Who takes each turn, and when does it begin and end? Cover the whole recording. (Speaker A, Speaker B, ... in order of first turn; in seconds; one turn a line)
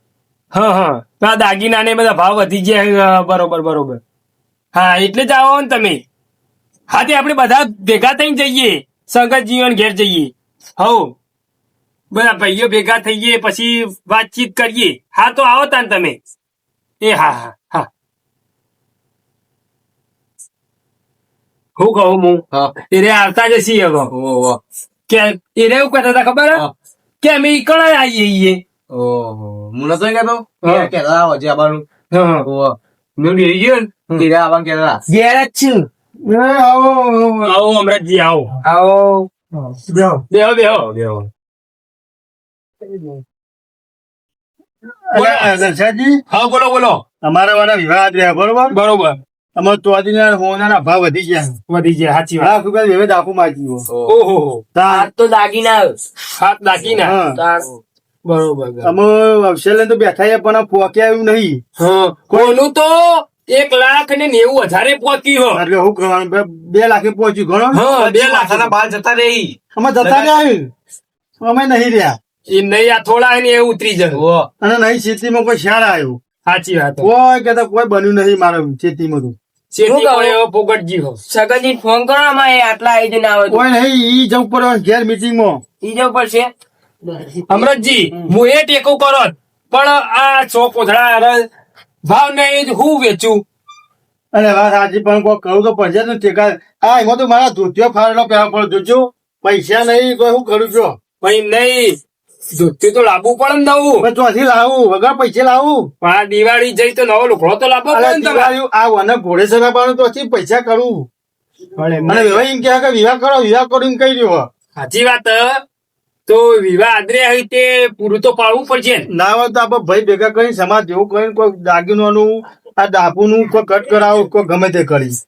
Speaker A: 0.5-4.0
Speaker A: 4.7-6.0
Speaker A: 6.9-11.1
Speaker A: 12.1-16.2
Speaker A: 17.0-17.9
Speaker A: 21.8-24.1
Speaker B: 24.1-24.6
Speaker A: 25.1-26.6
Speaker A: 27.2-28.6
Speaker B: 28.9-31.9
Speaker A: 30.6-30.9
Speaker A: 32.1-32.5
Speaker B: 32.4-35.0
Speaker C: 35.1-35.9
Speaker D: 36.2-37.6
Speaker A: 37.4-38.6
Speaker C: 38.6-39.3
Speaker D: 39.9-40.2
Speaker A: 40.3-41.2
Speaker D: 45.1-46.2
Speaker A: 45.1-45.5
Speaker A: 46.3-47.0
Speaker D: 47.2-48.7
Speaker A: 48.7-49.2
Speaker D: 49.5-51.6
Speaker A: 51.7-52.5
Speaker D: 52.4-53.9
Speaker A: 54.1-54.6
Speaker D: 54.7-55.1
Speaker C: 54.9-56.0
Speaker A: 56.4-57.1
Speaker D: 57.0-57.4
Speaker C: 57.3-57.7
Speaker A: 58.2-58.9
Speaker D: 58.8-61.6
Speaker A: 61.8-65.6
Speaker D: 62.3-62.6
Speaker D: 65.5-67.8
Speaker A: 67.7-68.7
Speaker B: 67.8-70.4
Speaker D: 69.8-70.7
Speaker D: 71.4-72.2
Speaker A: 72.5-74.2
Speaker B: 74.1-74.5
Speaker D: 74.6-76.2
Speaker A: 76.5-77.1
Speaker D: 77.0-79.3
Speaker A: 79.7-81.2
Speaker C: 79.8-80.4
Speaker C: 81.3-83.7
Speaker D: 83.5-85.6
Speaker C: 85.8-86.5
Speaker A: 87.5-91.5
Speaker A: 92.0-93.4
Speaker D: 94.3-101.0
Speaker A: 101.2-102.0
Speaker A: 102.5-104.1
Speaker D: 104.0-105.9
Speaker A: 106.0-108.5
Speaker D: 107.9-111.1
Speaker A: 111.8-112.5
Speaker D: 112.0-114.5
Speaker A: 114.8-115.6
Speaker A: 116.2-119.1
Speaker D: 119.1-125.2